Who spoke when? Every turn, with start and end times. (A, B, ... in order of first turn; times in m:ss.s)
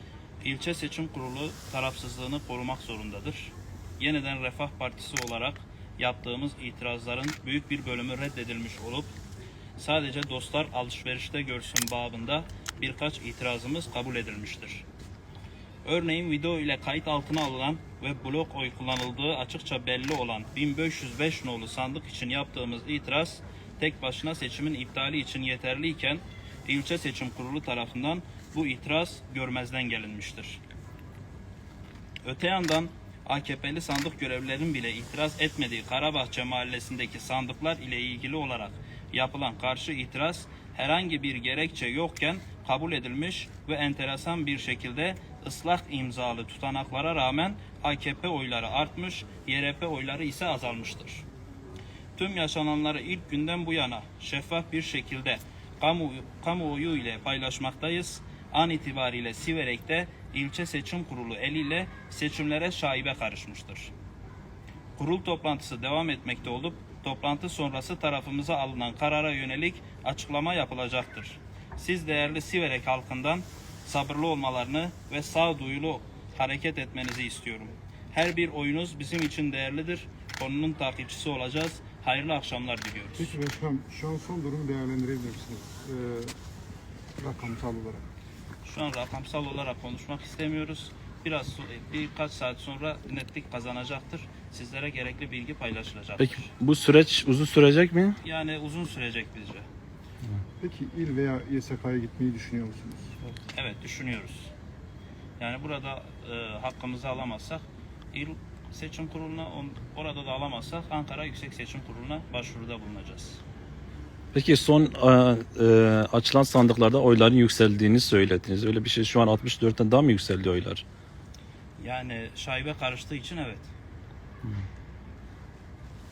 0:00.4-0:09.1 A
0:09.8-0:14.8 A
0:15.8-0:30.6 A
0:32.2-0:51.2 A
0:52.2-1:03.9 A
1:05.0-1:23.4 A
1:23.2-1:26.4 B
1:27.2-1:28.0 B
1:28.6-1:36.5 A
1:36.2-1:38.2 C
1:38.2-1:39.7 A
1:40.6-1:43.2 B
1:43.5-1:44.5 A
1:45.4-1:53.4 A
1:54.3-2:00.8 C
2:01.8-2:03.7 A